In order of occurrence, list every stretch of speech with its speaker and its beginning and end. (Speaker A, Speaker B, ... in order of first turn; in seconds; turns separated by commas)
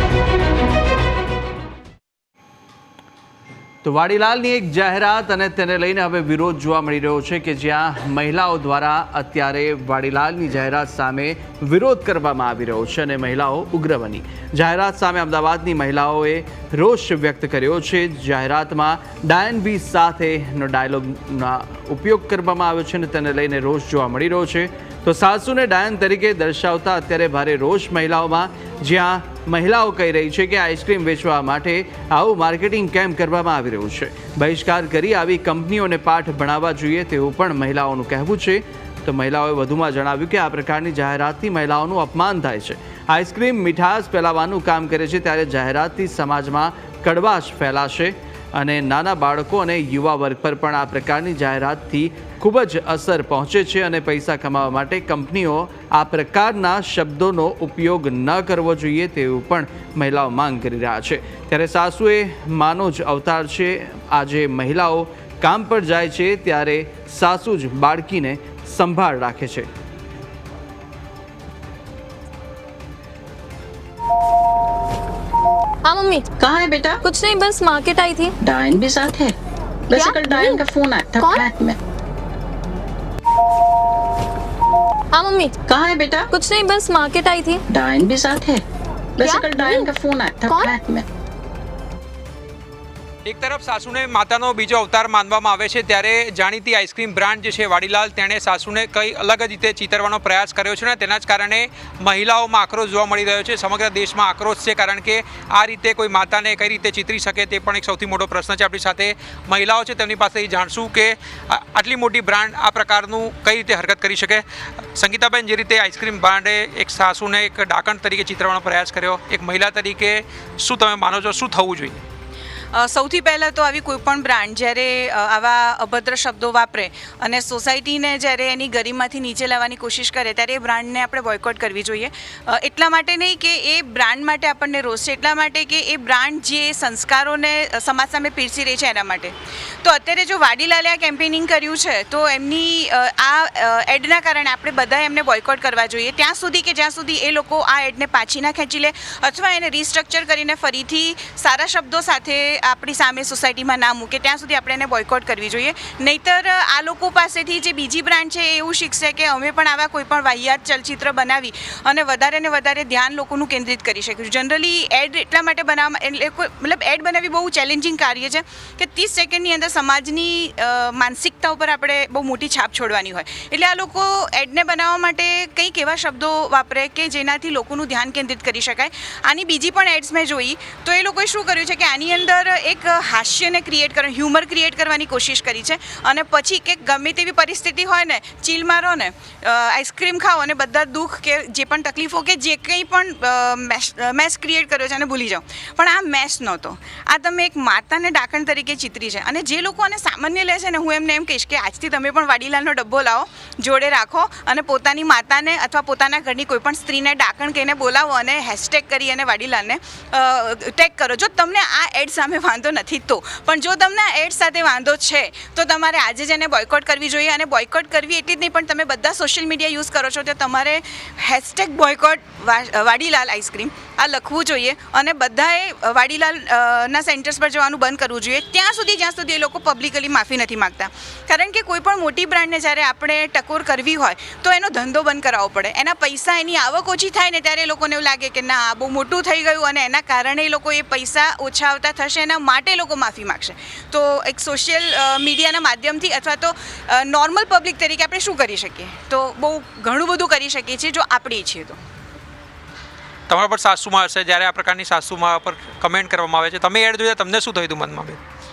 Speaker A: 3.8-69.7, Speaker B: 75.8-76.3, Speaker C: 76.4-77.0, Speaker B: 77.0-78.3, Speaker C: 78.4-79.3, Speaker C: 79.9-81.8, Speaker B: 79.9-80.6, Speaker B: 81.2-81.5, Speaker B: 85.1-85.5, Speaker C: 85.7-86.3, Speaker B: 86.3-87.6, Speaker C: 87.7-88.6, Speaker C: 89.2-91.0, Speaker B: 89.2-89.9, Speaker D: 93.2-122.0, Speaker E: 122.7-251.8, Speaker D: 253.3-258.2